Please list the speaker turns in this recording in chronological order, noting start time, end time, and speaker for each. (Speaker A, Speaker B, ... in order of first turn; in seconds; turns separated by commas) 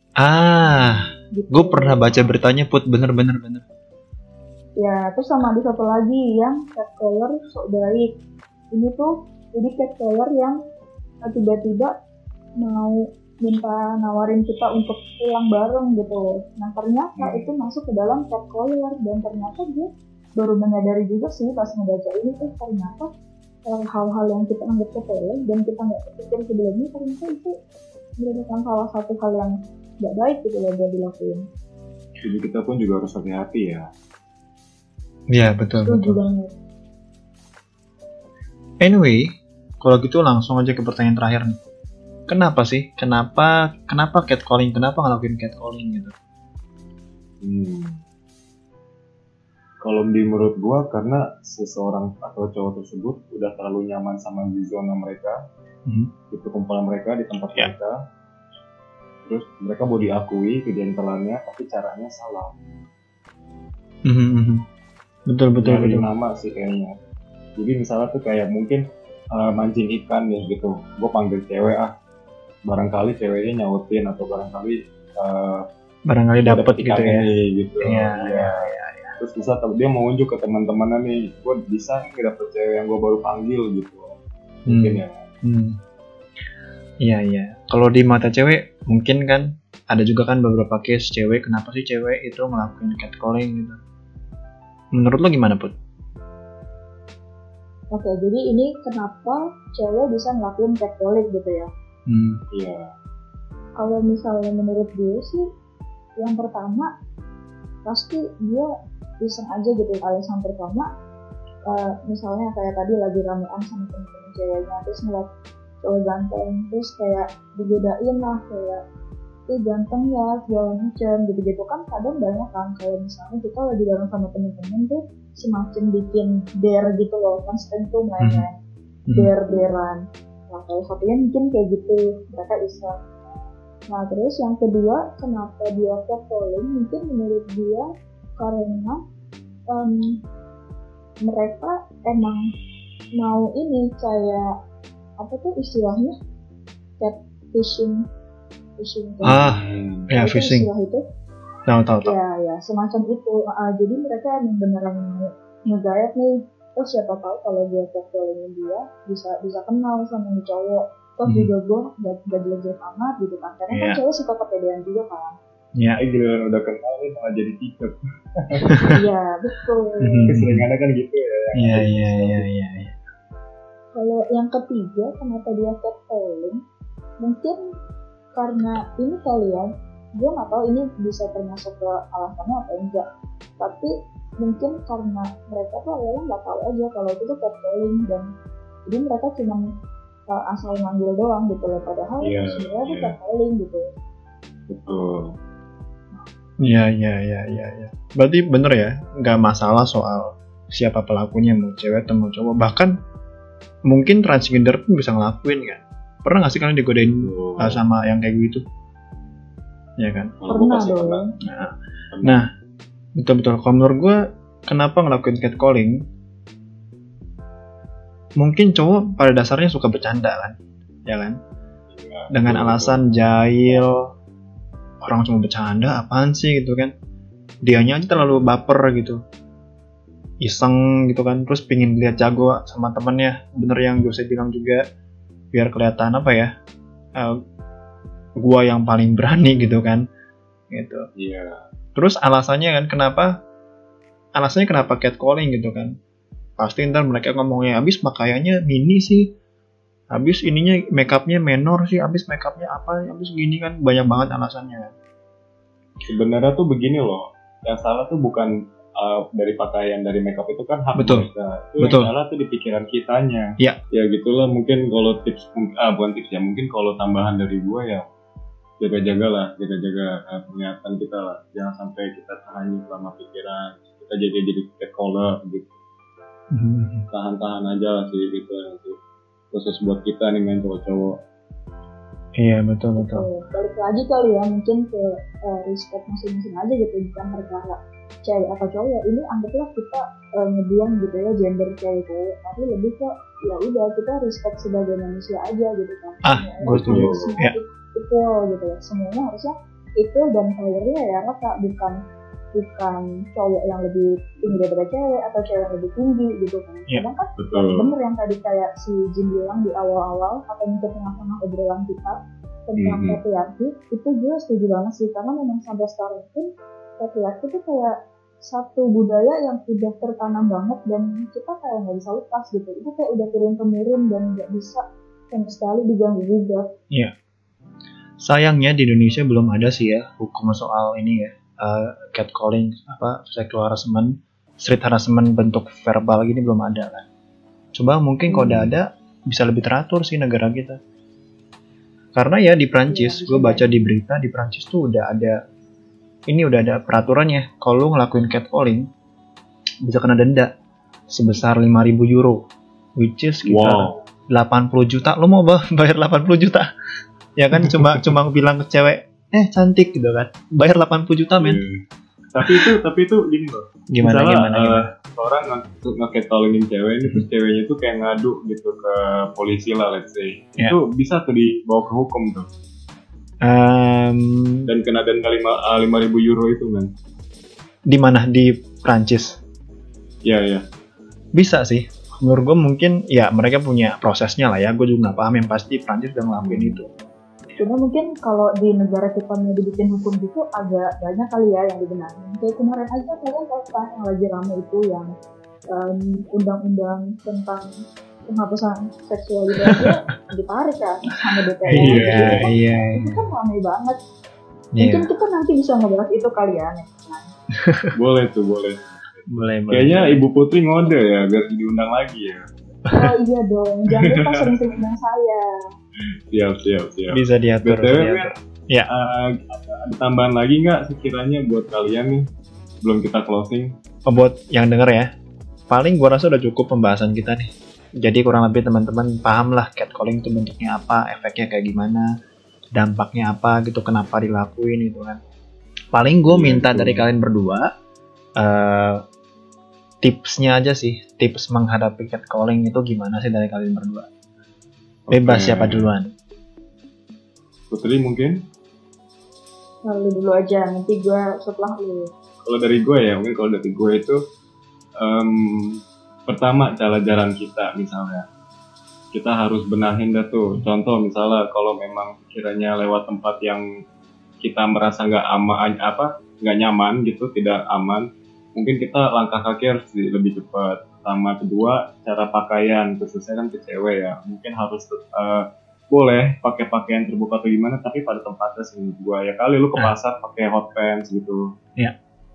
Speaker A: 0.2-3.6, Speaker B: 1.3-2.1, Speaker B: 4.8-8.1, Speaker B: 8.7-10.6, Speaker B: 11.2-11.9, Speaker B: 12.6-23.1, Speaker C: 17.2-17.5, Speaker B: 23.7-27.5, Speaker B: 28.2-31.4, Speaker C: 32.2-33.9, Speaker A: 35.3-36.2, Speaker B: 35.8-36.5, Speaker A: 38.8-41.6, Speaker A: 42.3-46.1, Speaker C: 47.4-48.0, Speaker C: 49.8-55.4, Speaker C: 56.3-57.9, Speaker C: 59.2-62.5, Speaker A: 64.0-64.6, Speaker A: 65.3-66.1, Speaker C: 65.6-66.9, Speaker C: 67.6-68.8, Speaker C: 69.3-71.9, Speaker C: 72.7-75.6, Speaker A: 76.1-77.2, Speaker C: 76.4-78.6, Speaker A: 77.8-79.2, Speaker C: 79.2-85.1, Speaker A: 84.7-85.8, Speaker A: 87.0-93.8, Speaker A: 94.9-95.7, Speaker B: 97.9-101.7, Speaker A: 102.1-102.4, Speaker C: 102.5-102.9, Speaker B: 103.8-105.4, Speaker B: 106.2-106.9, Speaker B: 107.8-108.7, Speaker B: 109.2-110.9, Speaker B: 111.7-115.3, Speaker B: 115.8-118.8, Speaker B: 119.5-128.5, Speaker A: 128.2-128.4, Speaker B: 129.1-132.9, Speaker B: 133.9-139.0, Speaker B: 139.7-140.2, Speaker B: 141.2-142.5, Speaker B: 143.2-144.5, Speaker B: 145.2-146.2, Speaker B: 147.0-148.0, Speaker B: 148.8-149.4, Speaker A: 149.2-150.7, Speaker C: 149.2-150.1, Speaker B: 150.1-151.0, Speaker A: 151.7-152.1, Speaker B: 152.0-165.3, Speaker A: 163.7-164.0, Speaker C: 166.0-169.0, Speaker A: 168.7-169.0, Speaker B: 168.8-170.3, Speaker A: 170.0-170.6, Speaker C: 170.3-172.4, Speaker A: 171.6-173.0, Speaker B: 173.9-176.6, Speaker B: 177.2-177.6, Speaker B: 178.3-183.1, Speaker B: 183.6-188.3, Speaker B: 188.9-189.7, Speaker B: 190.3-193.9, Speaker C: 192.2-193.1, Speaker C: 194.7-195.3, Speaker A: 196.6-202.9, Speaker A: 203.9-208.6, Speaker C: 207.2-207.8, Speaker A: 210.0-210.3, Speaker C: 210.4-211.2, Speaker B: 210.5-211.2, Speaker A: 211.4-212.5, Speaker C: 212.1-212.4, Speaker A: 213.2-216.0, Speaker A: 218.4-221.4, Speaker C: 221.9-223.0, Speaker A: 222.3-224.1, Speaker A: 225.0-226.9, Speaker A: 227.6-229.2, Speaker A: 230.4-234.8, Speaker A: 235.5-236.5, Speaker A: 238.4-240.1, Speaker A: 240.7-241.0, Speaker C: 241.2-241.6, Speaker A: 241.9-243.3, Speaker A: 244.3-245.9, Speaker A: 246.6-249.3, Speaker A: 250.1-254.9, Speaker C: 256.0-268.0, Speaker A: 260.9-261.3, Speaker A: 261.8-262.1, Speaker C: 268.8-275.7, Speaker A: 276.5-277.1, Speaker C: 277.1-279.0, Speaker C: 279.5-281.1, Speaker A: 282.4-283.2, Speaker B: 283.0-302.0, Speaker A: 296.2-297.5, Speaker C: 296.7-297.3, Speaker B: 302.5-312.1, Speaker C: 307.4-307.9, Speaker B: 312.7-316.5, Speaker C: 312.8-313.2, Speaker B: 317.0-317.9, Speaker B: 318.4-326.7, Speaker A: 328.2-337.1, Speaker A: 337.7-340.8, Speaker C: 338.3-338.7, Speaker A: 342.1-345.4, Speaker B: 342.9-343.7, Speaker A: 346.3-348.9, Speaker A: 349.8-350.5, Speaker A: 351.1-352.4, Speaker A: 353.0-356.7, Speaker C: 353.4-354.0, Speaker A: 357.4-361.6, Speaker C: 357.6-358.1, Speaker C: 361.3-361.8, Speaker C: 362.3-372.5, Speaker A: 363.9-364.9, Speaker A: 373.4-374.7, Speaker C: 374.6-376.9, Speaker A: 377.9-379.4, Speaker C: 380.2-380.6, Speaker A: 381.3-386.9, Speaker C: 386.4-386.8, Speaker B: 387.6-395.1, Speaker B: 395.7-397.7, Speaker B: 398.3-404.0, Speaker A: 401.6-403.3, Speaker C: 401.7-402.5, Speaker A: 404.7-405.1, Speaker B: 404.8-407.3, Speaker A: 407.6-407.9, Speaker C: 407.9-412.4, Speaker A: 409.3-410.2, Speaker B: 412.9-415.4, Speaker C: 413.9-414.6, Speaker C: 416.3-418.3, Speaker A: 417.1-418.9, Speaker C: 418.9-422.2, Speaker C: 422.8-423.7, Speaker A: 424.1-425.1, Speaker A: 425.7-432.1, Speaker A: 432.8-435.2, Speaker A: 435.9-437.7, Speaker C: 436.3-437.1, Speaker A: 438.4-439.0, Speaker A: 440.0-444.1, Speaker C: 445.1-445.9, Speaker A: 445.1-446.1, Speaker C: 447.7-448.4, Speaker B: 449.9-452.1, Speaker C: 452.4-454.2, Speaker C: 455.0-458.2, Speaker C: 459.1-463.6, Speaker C: 464.4-481.4